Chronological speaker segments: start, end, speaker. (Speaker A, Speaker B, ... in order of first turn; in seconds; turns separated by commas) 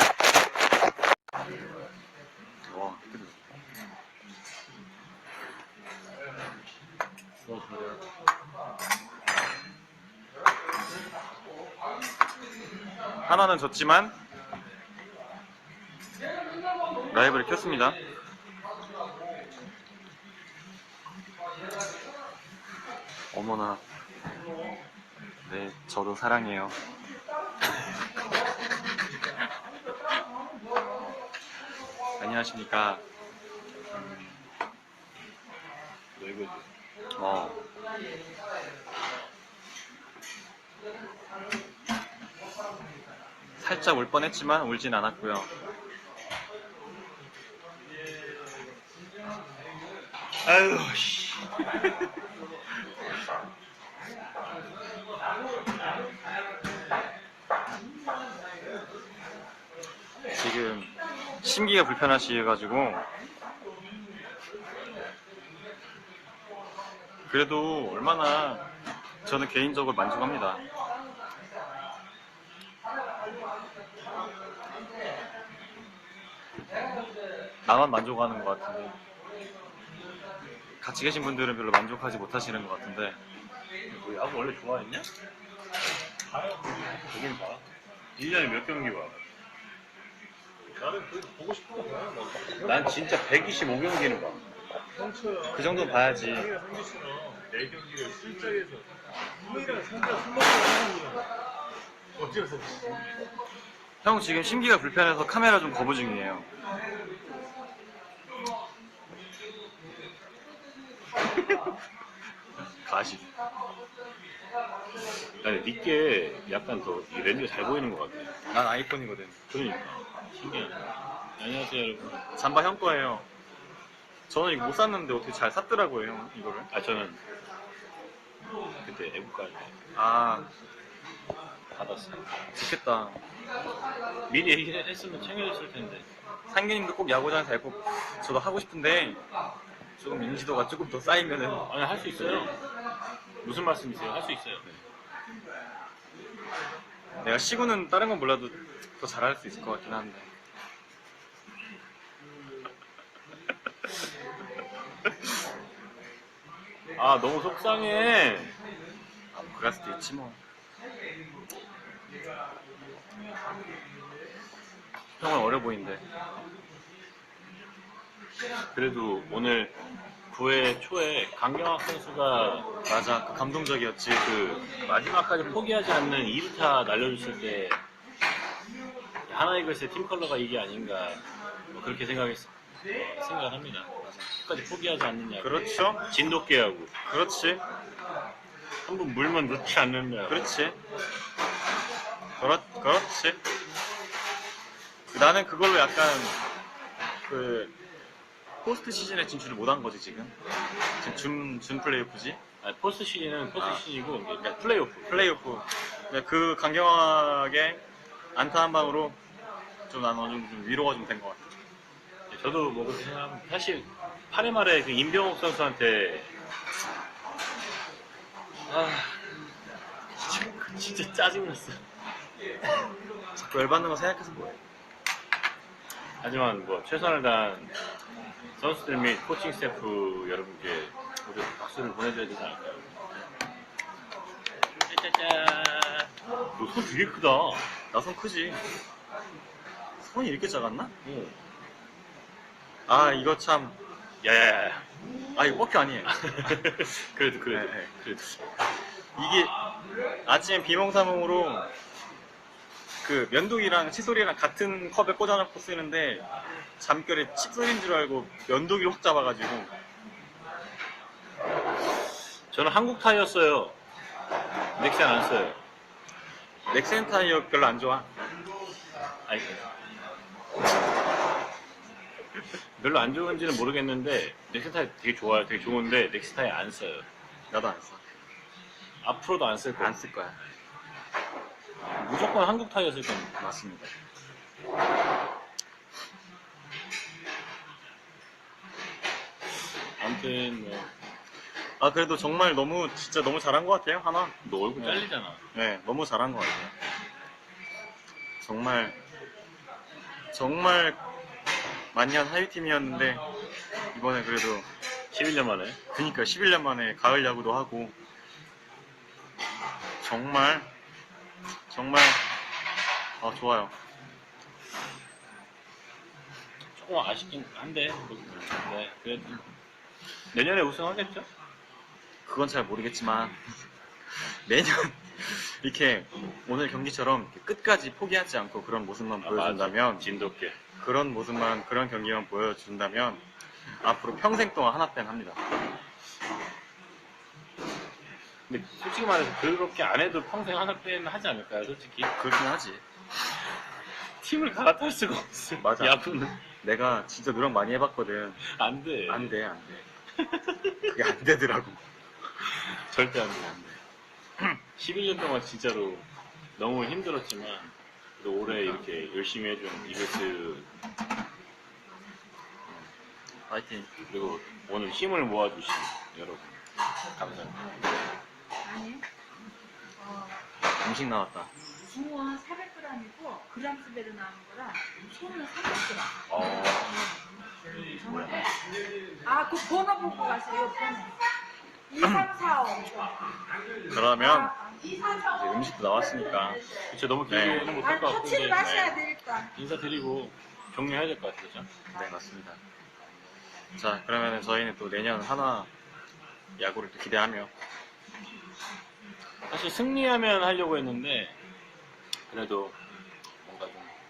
Speaker A: 2.7-3.4, Speaker B: 7.5-7.8, Speaker A: 13.2-14.2, Speaker A: 17.1-18.0, Speaker A: 23.3-23.8, Speaker A: 25.4-26.8, Speaker A: 32.2-33.0, Speaker A: 33.9-34.4, Speaker B: 36.2-36.7, Speaker A: 37.1-37.7, Speaker A: 43.6-45.5, Speaker B: 50.5-51.6, Speaker A: 60.3-63.1, Speaker A: 67.3-68.7, Speaker A: 69.2-70.6, Speaker A: 77.7-79.0, Speaker A: 80.8-83.2, Speaker B: 83.9-85.1, Speaker B: 86.4-87.6, Speaker B: 88.2-89.2, Speaker C: 90.8-93.1, Speaker B: 92.6-94.4, Speaker C: 94.9-98.9, Speaker A: 95.5-96.5, Speaker C: 99.4-101.3, Speaker C: 102.2-103.0, Speaker A: 104.0-106.5, Speaker A: 112.8-113.3, Speaker B: 115.4-118.3, Speaker A: 118.5-119.4, Speaker B: 119.5-120.8, Speaker B: 121.4-122.2, Speaker A: 122.3-123.3, Speaker A: 124.3-126.7, Speaker B: 126.7-127.2, Speaker B: 128.8-129.7, Speaker A: 129.9-130.5, Speaker B: 131.7-132.3, Speaker A: 132.6-133.2, Speaker B: 134.3-136.1, Speaker A: 136.5-139.2, Speaker A: 140.0-142.5, Speaker B: 141.7-142.6, Speaker B: 143.4-144.8, Speaker A: 147.2-150.3, Speaker B: 157.0-158.6, Speaker A: 159.3-160.4, Speaker A: 165.2-166.0, Speaker B: 168.7-169.8, Speaker B: 170.3-172.7, Speaker A: 172.9-174.3, Speaker B: 174.2-177.8, Speaker B: 179.3-183.9, Speaker A: 184.0-184.3, Speaker B: 184.4-186.9, Speaker A: 185.4-186.1, Speaker A: 187.1-187.6, Speaker B: 188.8-190.5, Speaker A: 190.3-190.8, Speaker A: 192.4-193.4, Speaker A: 195.1-196.4, Speaker A: 197.2-197.8, Speaker A: 198.6-200.4, Speaker A: 201.0-202.4, Speaker B: 202.6-205.3, Speaker A: 203.6-203.8, Speaker A: 205.1-207.8, Speaker A: 208.3-209.2, Speaker A: 209.9-211.5, Speaker B: 212.3-216.3, Speaker B: 218.7-219.2, Speaker B: 220.2-221.8, Speaker A: 223.4-224.6, Speaker B: 226.2-227.7, Speaker B: 228.6-232.9, Speaker B: 234.8-237.6, Speaker A: 237.9-238.6, Speaker A: 240.0-240.9, Speaker B: 241.0-241.4, Speaker A: 242.9-243.8, Speaker B: 244.2-244.8, Speaker A: 245.4-246.7, Speaker B: 246.1-248.4, Speaker A: 247.5-247.9, Speaker A: 249.2-249.6, Speaker A: 250.2-251.7, Speaker A: 253.0-256.3, Speaker A: 256.8-259.7, Speaker B: 262.5-263.8, Speaker B: 264.8-265.6, Speaker A: 266.7-268.1, Speaker B: 269.3-269.5, Speaker B: 272.8-277.1, Speaker A: 277.5-278.0, Speaker B: 279.0-280.1, Speaker A: 279.8-280.4, Speaker B: 282.0-283.4, Speaker A: 283.4-283.9, Speaker B: 290.0-290.9, Speaker A: 291.8-296.8, Speaker B: 294.4-295.4, Speaker A: 298.4-299.0, Speaker A: 300.3-301.0, Speaker A: 301.9-303.2, Speaker A: 303.9-304.7, Speaker B: 305.1-305.8, Speaker A: 305.9-308.0, Speaker A: 310.0-310.7, Speaker A: 311.7-312.2, Speaker A: 313.2-313.7, Speaker B: 316.8-319.4, Speaker B: 320.3-321.3, Speaker A: 322.3-323.4, Speaker A: 324.3-330.1, Speaker B: 329.2-330.6, Speaker A: 330.8-333.2, Speaker A: 333.8-335.4, Speaker B: 338.5-342.1, Speaker A: 342.2-342.8, Speaker B: 344.2-346.4, Speaker A: 345.6-346.0, Speaker A: 346.6-348.4, Speaker B: 348.5-349.4, Speaker A: 349.1-349.9, Speaker B: 350.2-350.9, Speaker A: 350.9-351.8, Speaker B: 352.4-353.8, Speaker B: 354.8-356.1, Speaker B: 356.6-360.7, Speaker A: 358.5-358.8, Speaker A: 363.5-363.9, Speaker B: 364.1-366.6, Speaker B: 367.2-367.6, Speaker D: 368.6-369.1, Speaker D: 370.0-370.4, Speaker A: 370.8-371.5, Speaker D: 371.9-377.0, Speaker B: 376.3-376.9, Speaker D: 377.9-378.5, Speaker A: 378.0-378.4, Speaker B: 378.1-378.4, Speaker D: 379.2-381.2, Speaker D: 381.9-383.2, Speaker A: 383.9-384.6, Speaker D: 384.2-385.2, Speaker A: 385.2-386.6, Speaker B: 386.9-391.7, Speaker A: 387.3-387.8, Speaker D: 387.7-389.5, Speaker A: 391.9-392.6, Speaker A: 393.8-395.7, Speaker A: 396.6-397.5, Speaker B: 399.5-401.4, Speaker B: 402.3-402.8, Speaker B: 403.4-403.9